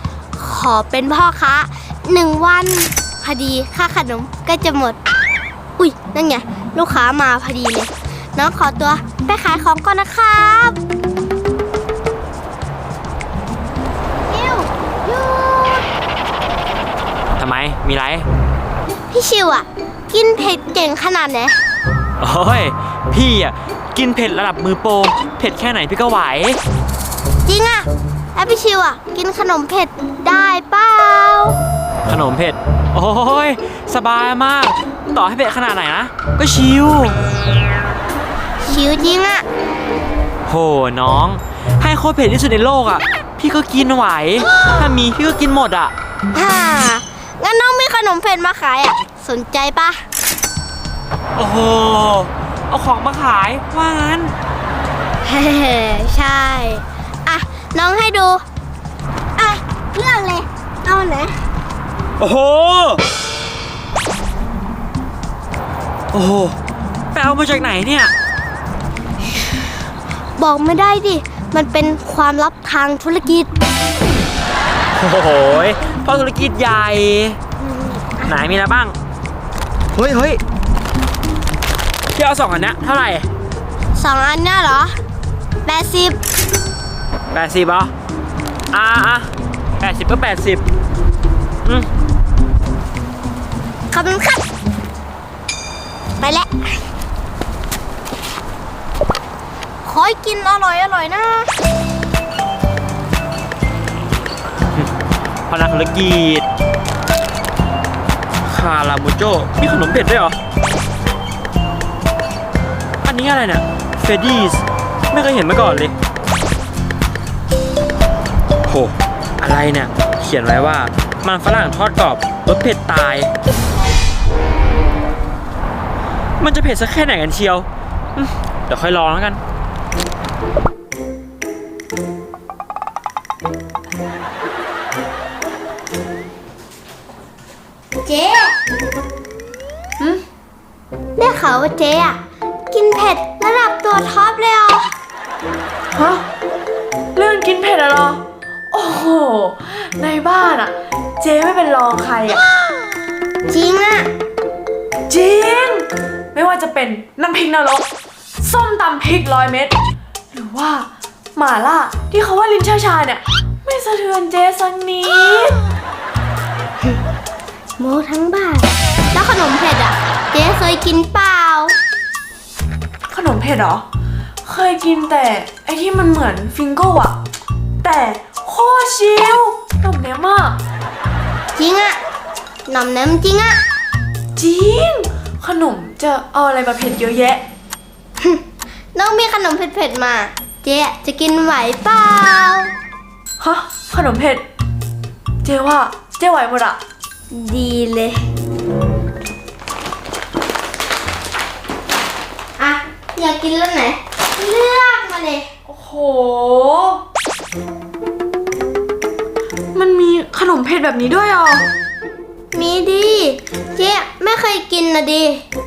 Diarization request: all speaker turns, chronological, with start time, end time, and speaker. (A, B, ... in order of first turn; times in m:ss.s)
0:00.4-0:05.0 A
0:05.8-0:10.8 A
0:14.2-0:15.9 A
0:17.4-0:18.3 B
0:19.1-0:21.6 A
0:22.2-0:26.6 B
0:27.4-0:31.6 A
0:32.0-0:37.2 B
0:38.6-0:39.4 A
0:40.4-0:45.9 B
0:46.3-0:50.0 A
0:51.4-0:54.3 B
0:55.2-0:58.4 A
0:59.4-1:01.4 A
1:02.2-1:03.0 B
1:06.1-1:06.6 B
1:07.1-1:08.1 B
1:10.4-1:13.5 A
1:14.9-1:17.4 B
1:17.6-1:18.4 A
1:18.2-1:19.0 B
1:19.9-1:20.4 B
1:22.1-1:23.3 B
1:23.9-1:24.9 A
1:25.6-1:26.2 A
1:27.3-1:27.9 B
1:28.7-1:30.6 B
1:33.9-1:34.4 A
1:36.2-1:36.5 A
1:39.8-1:41.5 A
1:45.5-1:46.4 B
1:48.4-1:50.4 B
1:53.0-1:56.0 B
1:58.6-2:03.3 B
2:06.4-2:09.4 B
2:18.0-2:18.6 A
2:21.2-2:22.2 A
2:22.7-2:24.9 A
2:25.9-2:26.2 C
2:27.1-2:28.2 C
2:28.7-2:32.4 C
2:33.5-2:34.1 A
2:35.1-2:37.8 C
2:38.4-2:39.7 C
2:40.3-2:45.6 C
2:47.8-2:51.7 A
2:53.1-2:53.8 C
2:54.4-2:57.2 C
2:57.8-3:00.6 C
3:01.6-3:02.0 A
3:02.7-3:03.6 A
3:04.4-3:07.4 C
3:08.9-3:12.7 A
3:13.4-3:14.4 C
3:15.4-3:16.8 C
3:17.3-3:18.2 A
3:22.6-3:25.5 A
3:25.6-3:27.0 C
3:29.7-3:31.7 C
3:32.5-3:35.4 A